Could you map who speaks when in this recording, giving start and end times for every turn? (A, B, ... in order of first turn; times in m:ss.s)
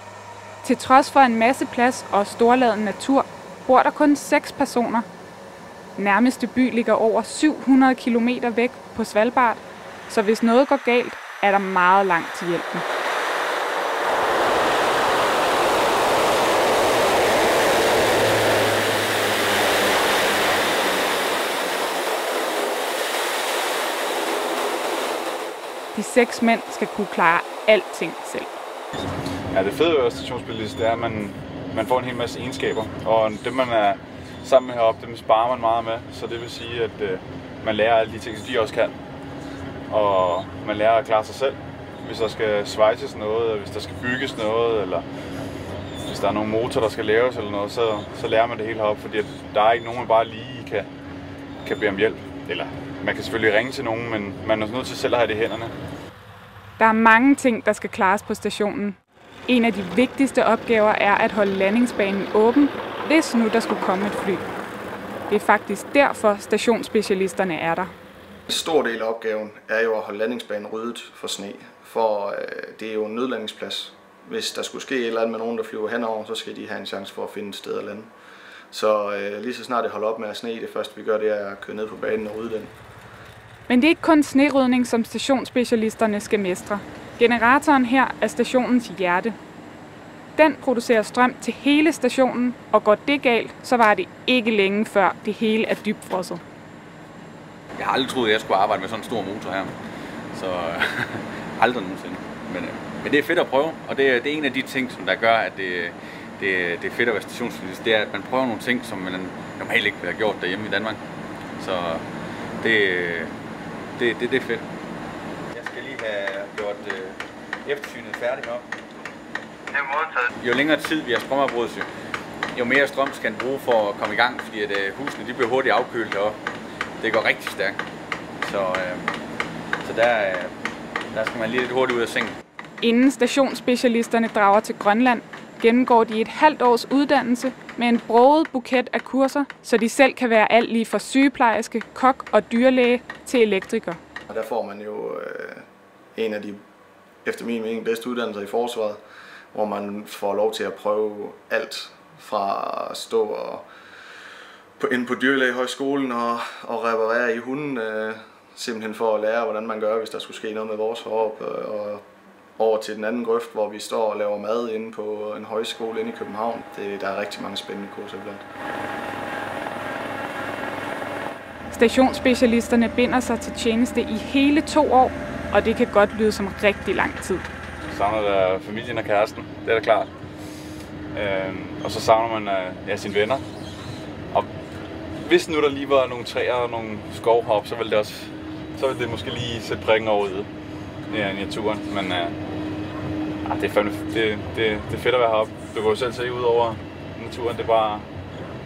0:00.6-0:05.1 A
0:06.0-0:12.8 A
0:25.9-0:28.5 A
0:29.5-0:39.0 B
0:39.9-0:45.0 B
0:46.0-0:50.9 B
0:51.6-0:55.7 B
0:56.8-1:04.4 A
1:05.3-1:07.9 A
1:08.5-1:18.1 C
1:18.7-1:22.7 C
1:23.7-1:29.4 A
1:30.4-1:36.4 A
1:37.8-1:39.8 D
1:40.3-1:51.0 D
1:51.6-1:52.0 D
1:52.6-1:53.3 D
1:54.0-1:54.7 D
1:55.5-1:58.7 D
2:00.4-2:01.9 D
2:02.5-2:06.4 D
2:07.0-2:07.8 D
2:08.4-2:09.1 D
2:09.8-2:10.5 D
2:11.1-2:12.4 D
2:12.8-2:24.0 A
2:24.3-2:25.6 C
2:26.2-2:26.6 C
2:27.2-2:29.0 C
2:29.5-2:33.7 C
2:34.8-2:42.0 C
2:42.6-2:48.4 C
2:51.7-2:57.5 A
2:57.9-3:00.1 B
3:01.1-3:03.4 B
3:05.2-3:10.5 B
3:11.1-3:12.4 B
3:13.4-3:18.1 B